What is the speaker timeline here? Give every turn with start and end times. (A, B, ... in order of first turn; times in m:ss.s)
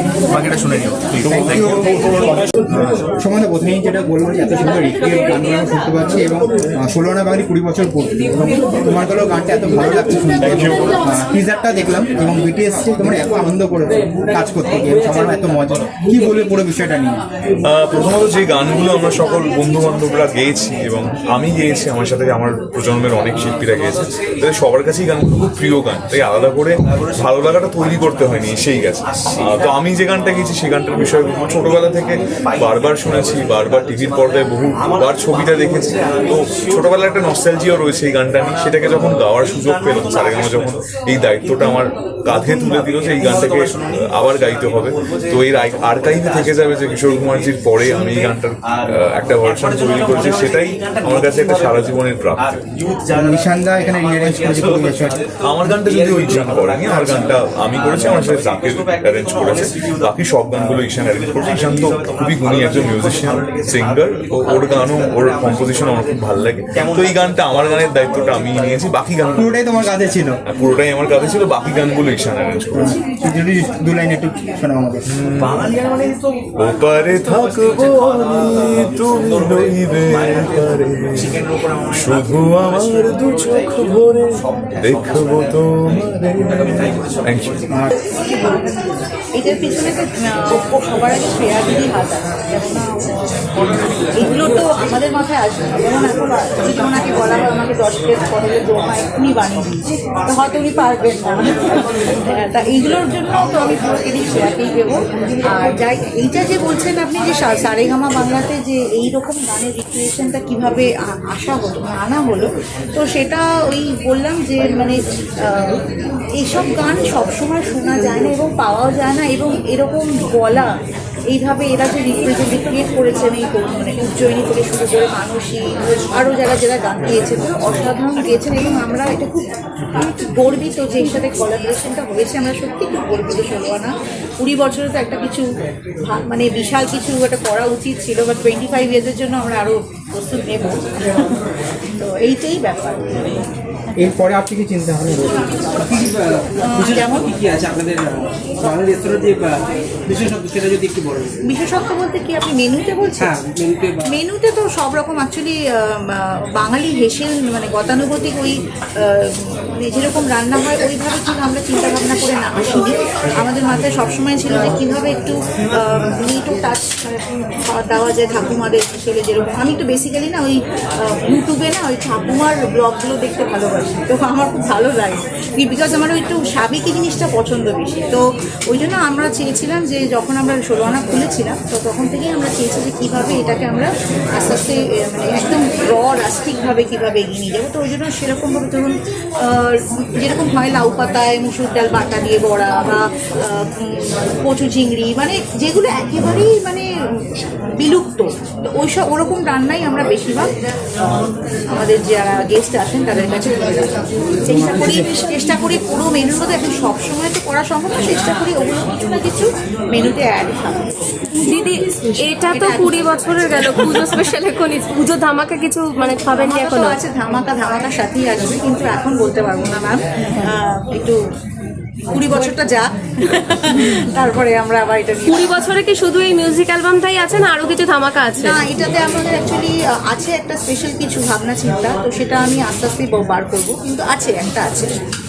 0:00.2-0:02.4 A
0:01.2-0:17.2 B
0:10.4-0:10.9 C
0:17.7-0:52.6 C
0:29.3-0:29.8 A
0:31.4-0:31.9 A
0:32.5-0:34.3 A
0:34.8-0:36.8 A
0:38.5-0:40.8 A
0:42.3-0:48.8 A
0:49.4-1:06.2 A
0:53.1-0:55.2 B
0:55.4-1:13.0 C
1:06.8-1:08.8 A
1:09.3-1:10.4 B
1:12.7-1:15.1 B
1:15.1-1:15.7 C
1:15.4-1:16.4 A
1:16.6-1:27.6 C
1:17.2-1:20.7 A
1:21.2-1:23.6 A
1:24.8-1:25.5 A
1:26.5-1:27.4 A
1:28.2-1:28.8 D
1:29.3-1:33.0 D
1:34.1-1:41.6 D
1:42.3-1:55.0 D
1:55.5-1:55.8 D
1:56.4-2:00.7 D
2:01.3-2:15.4 D
2:16.0-2:21.4 D
2:22.0-2:23.4 D
2:24.0-2:25.3 B
2:25.3-2:27.7 D
2:26.9-2:27.9 E
2:30.2-2:30.9 E
2:31.4-2:33.4 D
2:33.3-2:33.7 E
2:34.0-3:09.0 D
3:09.5-3:16.9 D
3:17.8-3:20.5 D
3:21.7-3:30.8 D
3:24.5-3:25.1 B
3:31.4-3:34.3 D
3:34.5-3:36.8 F
3:36.3-3:41.2 D
3:42.1-3:45.7 D
3:45.6-3:48.1 F
3:48.4-3:54.9 D